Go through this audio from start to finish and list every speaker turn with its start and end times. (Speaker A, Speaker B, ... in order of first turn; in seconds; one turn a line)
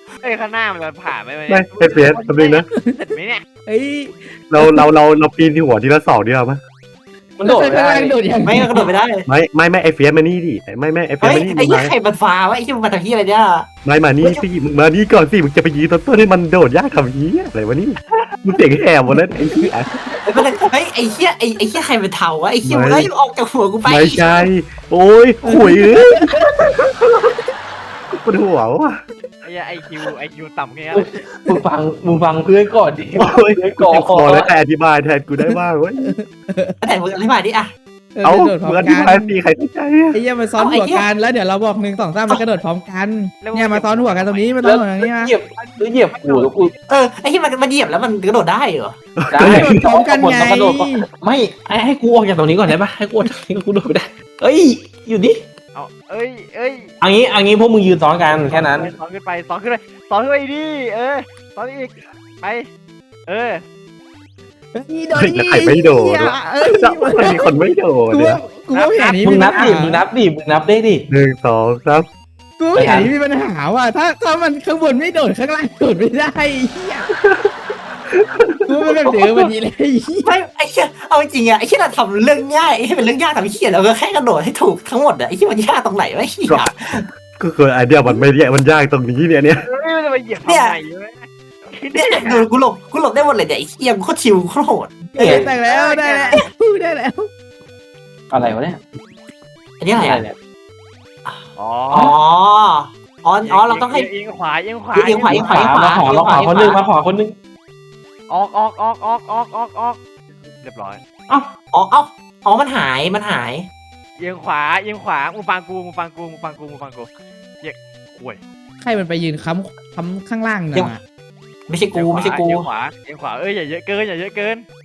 Speaker A: 0.2-3.4
Speaker B: 1.5-2.7
Speaker C: 2.8-3.1
Speaker C: 3.7-4.9
Speaker B: 4.5-6.6
Speaker D: 7.4-8.2
Speaker C: 7.4-8.9
Speaker E: 8.4-9.3
Speaker B: 9.2-11.9
Speaker E: 11.2-13.7
Speaker B: 13.8-19.9
Speaker C: 19.1-19.8
Speaker E: 20.3-24.5
Speaker B: 22.6-23.1
Speaker B: 23.9-26.5
Speaker C: 25.4-26.5
Speaker B: 28.1-29.0
Speaker A: 29.4-31.2
Speaker D: 30.9-34.5
Speaker B: 33.2-36.1
Speaker C: 35.4-36.8
Speaker E: 36.8-37.7
Speaker C: 38.1-39.4
Speaker B: 38.2-40.2
Speaker C: 40.1-45.3
Speaker E: 40.6-41.1
Speaker A: 43.4-44.6
Speaker D: 44.6-46.7
Speaker A: 45.6-46.8
Speaker E: 46.9-49.0
Speaker B: 49.2-49.8
Speaker D: 49.3-55.4
Speaker C: 49.4-51.1
Speaker A: 55.7-56.9
Speaker D: 57.0-58.9
Speaker A: 58.3-62.7
Speaker A: 63.3-63.6
Speaker C: 64.7-70.0
Speaker B: 65.2-68.4
Speaker A: 68.7-69.7
Speaker D: 69.2-71.0
Speaker B: 71.1-72.1
Speaker C: 72.6-77.1
Speaker D: 72.8-73.1
Speaker B: 77.2-77.5
Speaker B: 78.2-78.6
Speaker C: 78.7-80.3
Speaker D: 79.0-79.5
Speaker E: 80.2-87.1
Speaker B: 86.5-86.7
Speaker B: 87.4-89.7
Speaker A: 89.6-92.5
Speaker E: 90.4-90.8
Speaker E: 91.9-95.5
Speaker C: 95.1-97.3
Speaker D: 95.2-95.5
Speaker A: 95.2-96.5
Speaker D: 98.3-98.8
Speaker E: 99.8-100.2
Speaker D: 100.0-100.3
Speaker A: 101.6-102.1
Speaker D: 101.9-102.2
Speaker E: 102.0-104.1
Speaker A: 103.4-105.6
Speaker E: 104.9-106.8
Speaker D: 105.3-107.3
Speaker A: 108.3-110.0
Speaker A: 110.6-111.0
Speaker E: 111.7-113.7
Speaker A: 114.2-117.1
Speaker A: 117.6-118.4
Speaker C: 118.8-121.0
Speaker E: 121.7-122.7
Speaker A: 121.9-124.7